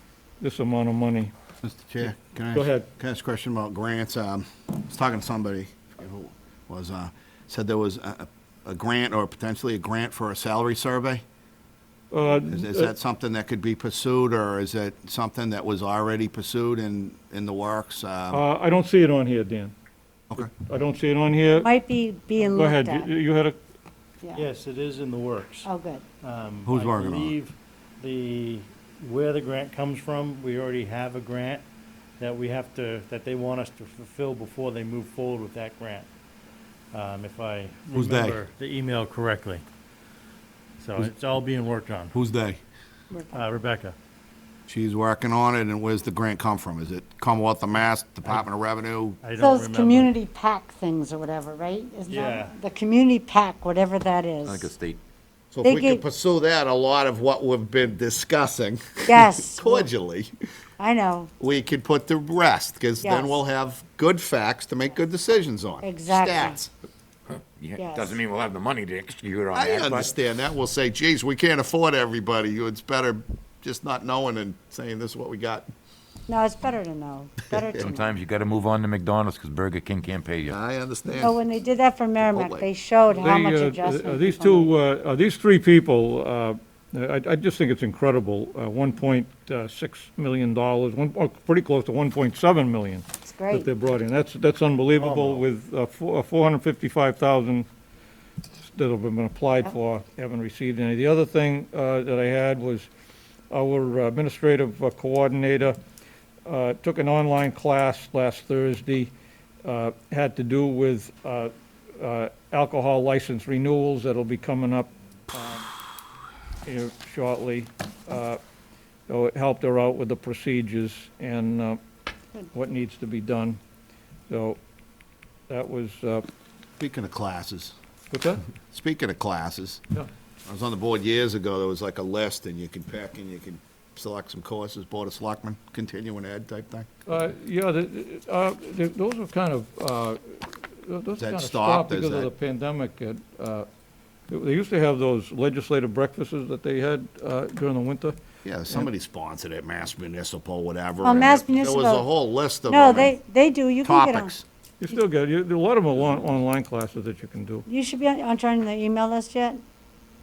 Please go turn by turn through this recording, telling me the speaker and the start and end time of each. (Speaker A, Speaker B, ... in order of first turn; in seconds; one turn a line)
Speaker A: 0.4-1.3
Speaker B: 1.6-11.2
Speaker A: 2.0-2.9
Speaker A: 12.1-12.9
Speaker B: 12.5-18.4
Speaker A: 18.3-19.7
Speaker A: 20.4-21.7
Speaker C: 21.6-23.1
Speaker A: 22.4-23.6
Speaker C: 24.2-24.5
Speaker D: 24.3-25.7
Speaker C: 25.6-26.0
Speaker D: 26.2-31.6
Speaker B: 26.7-27.3
Speaker D: 32.2-36.1
Speaker D: 36.9-39.6
Speaker B: 37.9-38.4
Speaker D: 40.8-42.1
Speaker B: 42.1-42.6
Speaker C: 43.1-43.4
Speaker D: 43.3-43.9
Speaker B: 44.7-49.2
Speaker D: 49.2-50.1
Speaker C: 49.4-54.7
Speaker D: 52.1-52.6
Speaker E: 54.4-55.0
Speaker B: 55.5-60.3
Speaker C: 55.6-56.0
Speaker C: 59.1-59.9
Speaker C: 60.8-61.3
Speaker B: 61.4-66.7
Speaker C: 63.0-63.4
Speaker C: 65.8-66.6
Speaker E: 67.3-70.1
Speaker C: 67.8-68.2
Speaker B: 69.5-75.7
Speaker C: 76.3-78.1
Speaker E: 77.8-80.6
Speaker B: 80.5-81.4
Speaker C: 81.2-84.7
Speaker B: 82.2-82.7
Speaker A: 83.1-97.7
Speaker C: 93.2-93.7
Speaker D: 95.0-95.4
Speaker A: 98.6-102.9
Speaker A: 103.5-105.8
Speaker A: 106.5-109.1
Speaker A: 109.7-115.7
Speaker A: 116.7-118.4
Speaker A: 119.1-121.8
Speaker A: 122.5-123.6
Speaker A: 124.3-124.6
Speaker A: 125.5-126.2
Speaker B: 126.8-127.8
Speaker A: 128.1-128.4
Speaker B: 128.7-129.8
Speaker B: 130.5-136.9
Speaker A: 137.1-143.7
Speaker B: 141.2-142.3
Speaker A: 144.3-148.2
Speaker B: 148.4-153.2
Speaker C: 151.0-152.1
Speaker C: 152.7-154.3
Speaker B: 153.8-154.4
Speaker A: 154.8-157.7
Speaker C: 157.7-159.6